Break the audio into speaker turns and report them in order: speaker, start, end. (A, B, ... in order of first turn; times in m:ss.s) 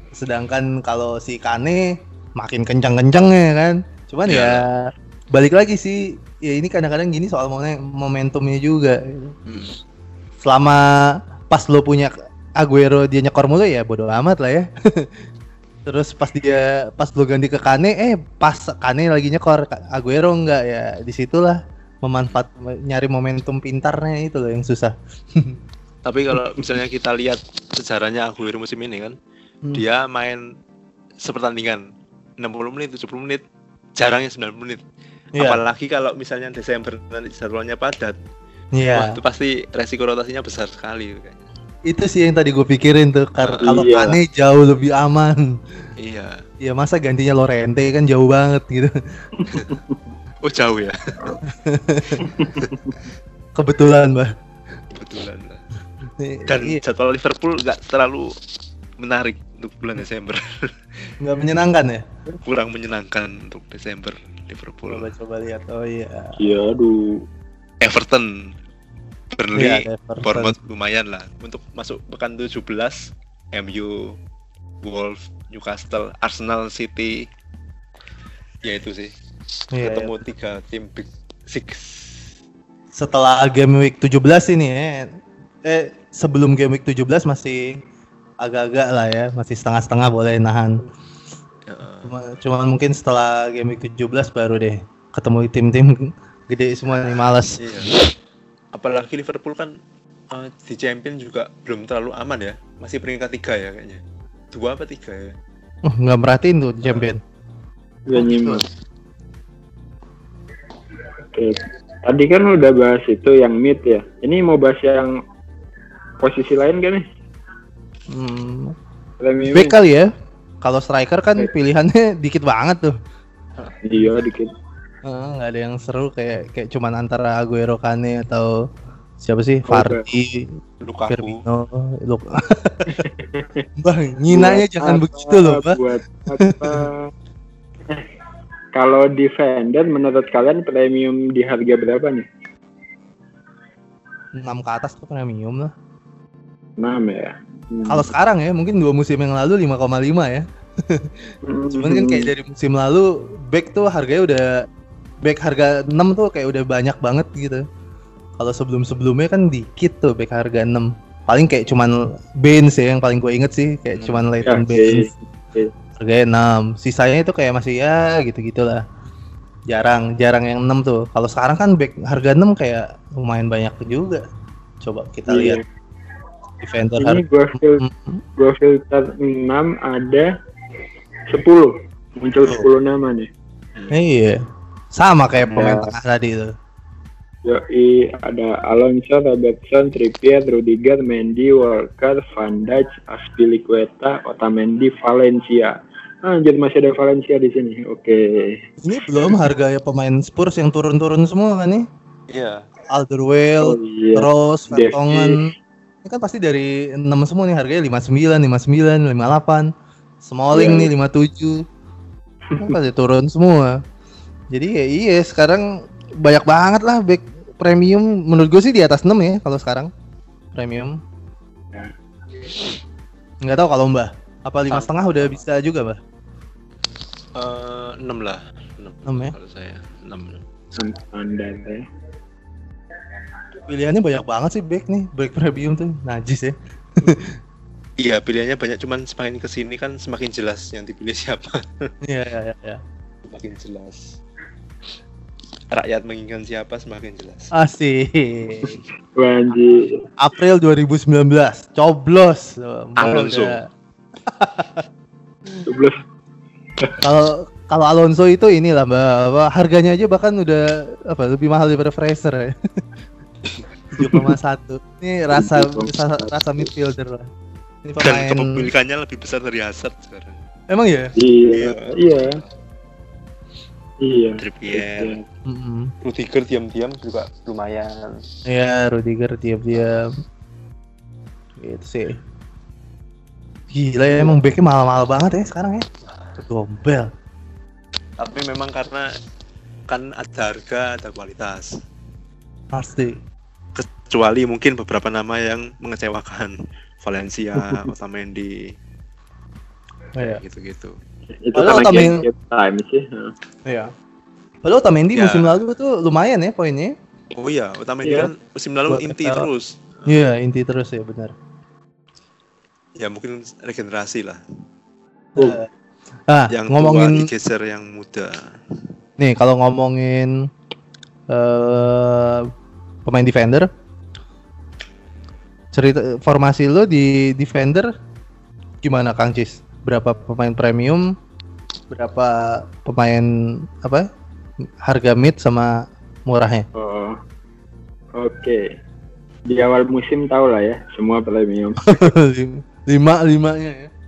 0:00.1-0:09.4 A
0:04.3-0:04.7 B
0:09.5-0:09.8 B
0:10.4-0:15.2 A
0:15.9-0:25.6 A
0:26.0-0:29.2 B
0:26.3-0:26.6 A
0:29.7-0:30.5 B
0:31.2-0:31.8 B
0:32.4-0:33.4 B
0:34.0-0:34.8 B
0:35.4-0:38.2 B
0:38.8-0:39.2 A
0:39.0-0:41.4 B
0:41.9-0:45.9 A
0:43.4-0:43.8 B
0:43.6-0:44.2 C
0:46.0-0:46.4 B
0:46.6-0:49.6 A
0:49.4-0:50.0 C
0:50.4-0:51.4 B
0:51.5-0:52.3 A
0:52.2-0:53.0 C
0:52.6-0:52.9 B
0:53.6-0:54.3 A
0:54.9-0:55.6 B
0:56.2-0:56.8 A
0:56.5-0:58.3 B
0:59.0-1:01.1 B
1:01.2-1:02.0 A
1:02.4-1:05.1 B
1:04.9-1:06.4 A
1:06.4-1:07.2 C
1:07.8-1:08.6 B
1:09.3-1:14.2 B
1:09.6-1:10.6 A
1:14.8-1:17.3 B
1:18.6-1:19.1 B
1:19.7-1:20.1 A
1:19.8-1:22.3 B
1:22.9-1:25.1 A
1:25.6-1:27.8 A
1:28.4-1:30.9 A
1:31.7-1:32.1 B
1:32.0-1:37.6 A
1:37.6-1:38.0 B
1:38.7-1:39.7 B
1:40.3-1:45.4 B
1:45.9-1:47.2 A
1:48.1-1:48.6 C
1:48.1-1:48.6 A
1:51.3-1:55.1 C
1:56.2-1:57.0 C
1:58.1-1:58.8 A
1:59.2-1:59.8 C
1:59.5-2:00.1 A
2:00.6-2:02.9 A
2:03.8-2:04.5 C
2:05.0-2:08.5 A
2:09.2-2:10.6 A
2:09.7-2:10.0 C
2:10.8-2:11.4 B
2:11.1-2:13.1 A
2:12.9-2:13.6 C
2:13.8-2:15.8 A
2:14.3-2:17.1 C
2:16.4-2:16.8 A
2:18.8-2:22.2 C
2:24.4-2:25.7 A
2:26.8-2:28.1 C
2:27.9-2:34.6 A
2:31.4-2:32.3 C
2:35.2-2:37.6 A
2:38.4-2:45.1 A
2:44.0-2:44.6 B
2:44.5-2:45.7 C
2:46.0-2:48.8 A
2:49.7-2:54.2 A
2:54.8-2:55.6 A
2:55.3-2:55.6 C
2:56.6-2:58.2 A
2:57.0-2:57.8 C
2:58.4-3:00.3 C
3:01.3-3:03.3 C
3:03.9-3:04.4 A
3:04.9-3:06.5 A
3:05.5-3:05.9 C
3:07.4-3:18.5 C
3:18.8-3:21.8 A
3:22.3-3:22.7 B
3:22.9-3:25.5 A
3:23.6-3:25.4 C
3:26.0-3:29.7 A
3:30.2-3:31.6 A
3:30.5-3:30.9 C
3:32.6-3:33.8 A
3:34.5-3:35.7 A
3:36.2-3:39.9 A
3:40.6-3:41.0 A
3:43.4-3:46.0 A
3:44.7-3:45.4 B
3:47.4-3:50.4 B
3:49.0-3:49.4 A
3:50.8-3:51.8 C
3:53.7-3:57.4 A
3:58.0-4:01.9 B
4:02.0-4:02.8 A
4:03.2-4:04.2 B
4:05.7-4:07.5 B
4:07.5-4:08.8 A
4:08.7-4:10.0 C
4:10.2-4:13.6 A
4:13.0-4:13.6 B
4:14.3-4:14.9 A
4:15.7-4:16.0 C
4:17.0-4:22.6 A
4:24.0-4:27.3 A
4:25.4-4:26.7 C
4:27.8-4:28.7 A
4:28.0-4:30.4 B
4:30.7-4:31.1 A
4:31.2-4:32.4 C
4:31.5-4:32.5 B
4:34.0-4:35.2 C
4:34.4-4:35.2 B
4:35.5-4:35.9 A
4:36.0-4:38.2 B
4:38.5-4:40.1 A
4:41.6-4:42.2 A
4:43.7-4:45.9 A
4:46.5-4:47.1 A
4:48.2-4:49.1 B
4:49.9-4:51.8 B
4:52.7-4:53.2 A
4:53.8-4:58.7 B
5:00.2-5:00.4 A
5:00.2-5:01.0 B
5:01.4-5:03.3 C
5:01.6-5:02.2 A
5:03.7-5:03.9 A
5:04.6-5:06.9 A
5:05.1-5:05.6 B
5:07.3-5:10.2 B
5:08.0-5:08.3 C
5:08.9-5:09.5 A
5:10.1-5:11.3 A
5:13.0-5:14.4 B
5:15.4-5:15.7 A
5:16.3-5:17.3 A
5:16.5-5:18.6 B
5:19.2-5:20.3 A
5:21.3-5:22.5 A
5:23.1-5:23.7 A
5:25.7-5:27.9 A
5:28.8-5:31.1 A
5:31.9-5:34.1 A
5:34.8-5:36.7 A
5:36.8-5:37.2 C
5:38.2-5:38.6 C
5:39.5-5:42.1 C
5:41.8-5:43.9 A